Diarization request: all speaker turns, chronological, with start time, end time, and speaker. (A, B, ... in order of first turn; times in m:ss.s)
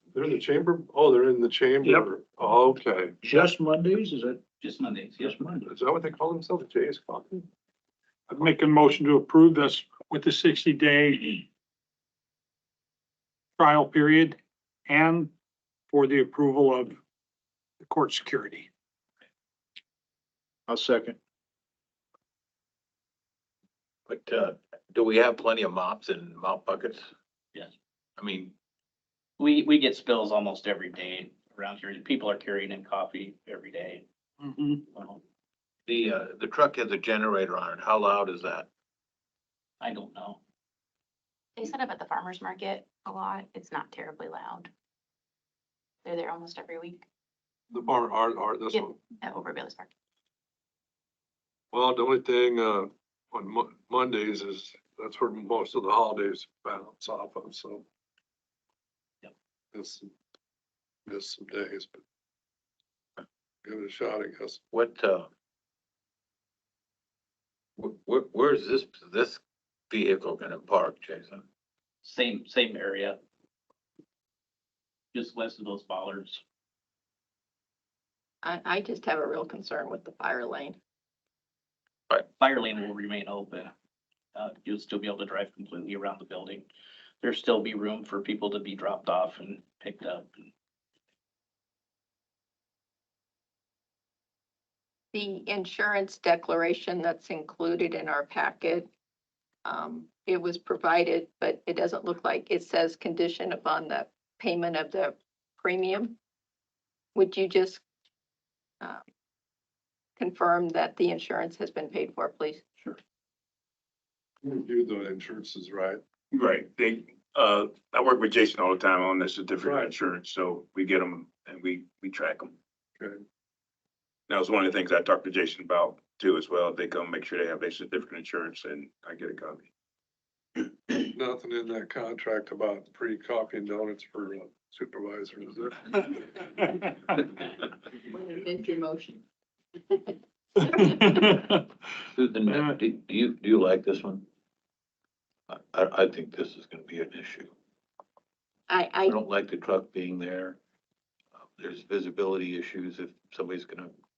0:00.1-0:03.2 A
0:04.6-0:05.4 B
0:05.6-0:07.5 A
0:08.3-0:11.4 C
0:13.6-0:15.3 C
0:15.9-0:17.0 C
0:17.8-0:18.7 C
0:24.1-0:27.1 D
0:28.2-0:28.5 D
0:29.4-0:34.0 B
0:34.9-0:35.2 B
0:35.8-0:38.7 D
0:39.8-0:40.4 B
0:41.6-0:44.7 E
0:46.0-0:47.0 E
0:47.7-0:49.0 A
0:48.7-0:49.9 E
0:51.7-0:57.8 A
0:59.7-1:00.1 A
1:01.1-1:02.0 A
1:03.6-1:04.6 A
1:04.7-1:05.3 D
1:07.8-1:11.4 D
1:12.0-1:13.2 B
1:15.1-1:16.4 B
1:18.4-1:20.8 F
1:22.4-1:23.7 B
1:24.3-1:26.6 B
1:27.2-1:30.5 B
1:35.1-1:38.9 F
1:39.6-1:46.2 F
1:47.1-1:47.8 F
1:50.2-1:52.6 F
1:54.4-1:56.0 A
1:56.3-2:02.5 G
1:59.6-1:59.9 A
2:04.3-2:09.7 G
2:11.1-2:16.1 A
2:18.0-2:19.2 F
2:20.6-2:21.2 F
2:22.1-2:24.2 D
2:22.5-2:22.8 C
2:25.5-2:27.5 D
2:28.7-2:29.2 F
2:29.1-2:30.6 D
2:31.4-2:33.9 D